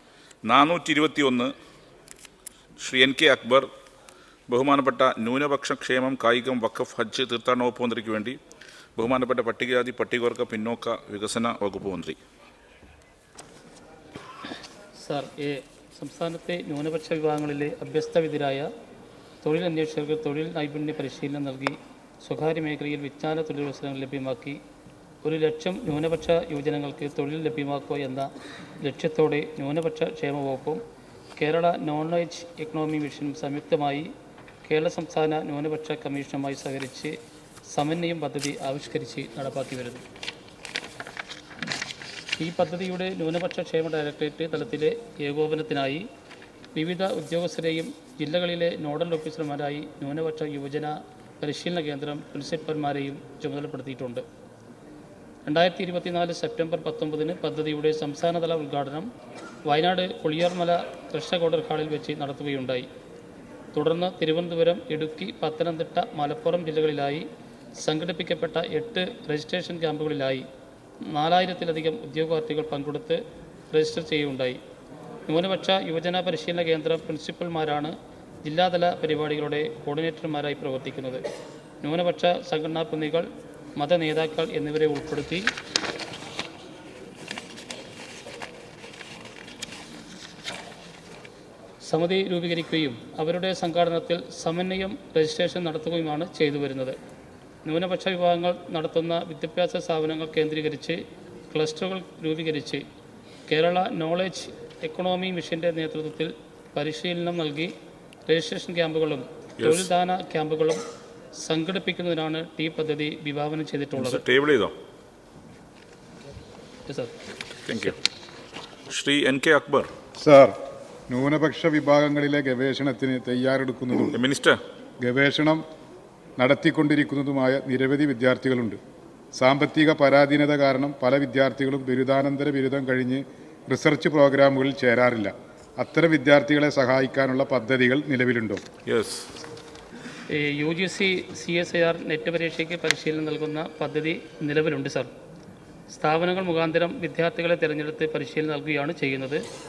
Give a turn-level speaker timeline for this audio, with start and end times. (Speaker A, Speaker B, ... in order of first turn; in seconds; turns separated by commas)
Speaker A: 0.5-1.5, Speaker A: 2.8-3.7, Speaker A: 4.5-8.4, Speaker A: 9.0-12.2, Speaker B: 15.0-18.7, Speaker B: 19.4-24.6, Speaker B: 25.2-28.3, Speaker B: 28.8-30.8, Speaker B: 31.4-34.1, Speaker B: 34.6-37.1, Speaker B: 37.7-40.0, Speaker B: 42.4-46.0, Speaker B: 46.8-54.2, Speaker B: 55.5-59.1, Speaker B: 59.7-62.9, Speaker B: 63.7-67.2, Speaker B: 67.8-70.5, Speaker B: 71.1-73.2, Speaker B: 73.7-74.6, Speaker B: 75.3-81.2, Speaker B: 81.8-85.5, Speaker B: 91.8-97.0, Speaker B: 97.7-102.8, Speaker B: 103.5-107.7, Speaker B: 108.3-110.8, Speaker A: 109.6-109.9, Speaker B: 111.4-114.2, Speaker A: 114.0-114.7, Speaker A: 117.7-118.0, Speaker A: 118.9-119.9, Speaker C: 120.2-120.5, Speaker C: 121.1-124.2, Speaker A: 124.0-124.6, Speaker C: 125.0-125.6, Speaker C: 126.4-128.8, Speaker C: 129.3-138.6, Speaker A: 138.9-139.3, Speaker B: 140.3-145.1, Speaker B: 145.9-149.4